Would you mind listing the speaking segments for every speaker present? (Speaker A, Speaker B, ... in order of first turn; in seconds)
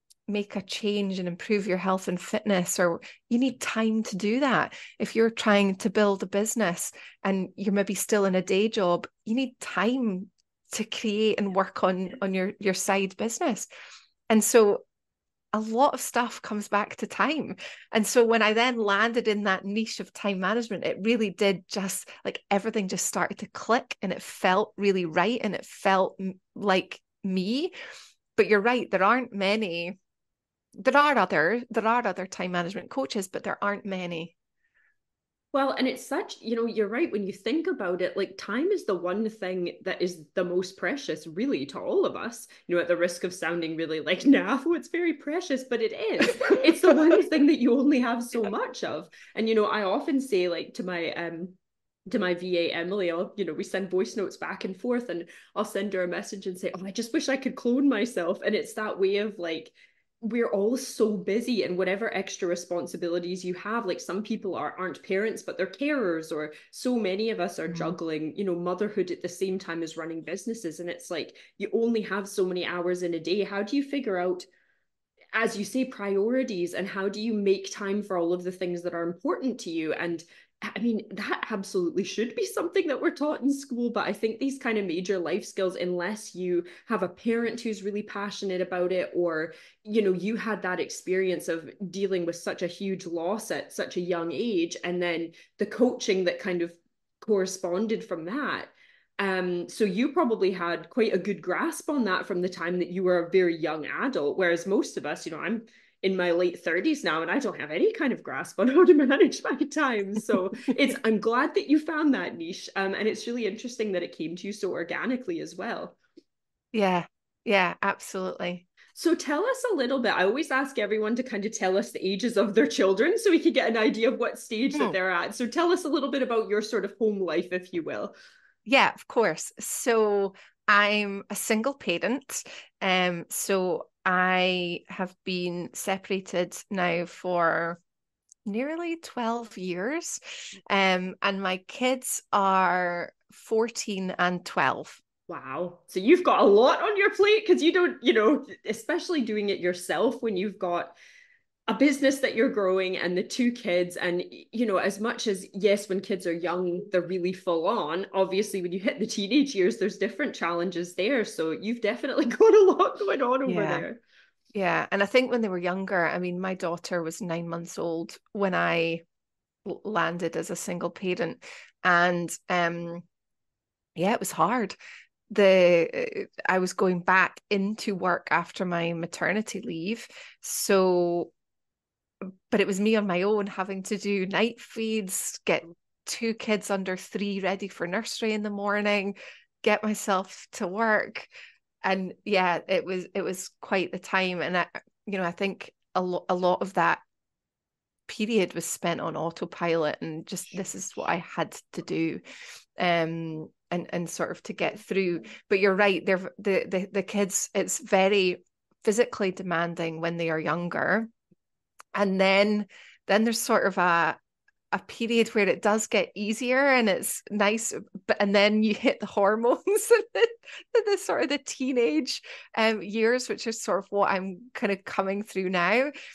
Speaker A: 0.3-13.7, 14.3-14.8, 15.5-27.7, 28.4-30.0, 30.8-34.3, 67.7-68.0, 116.7-118.7, 128.7-137.8, 138.5-145.0, 163.5-163.9, 164.5-169.0, 169.7-173.1, 174.0-174.8, 175.3-181.3, 182.5-191.3, 191.8-197.0, 198.1-202.2, 202.8-211.1, 211.9-214.2, 214.7-225.9
Speaker B: 35.5-51.6, 52.1-74.5, 75.3-116.0, 119.0-128.2, 145.3-150.9, 151.7-164.0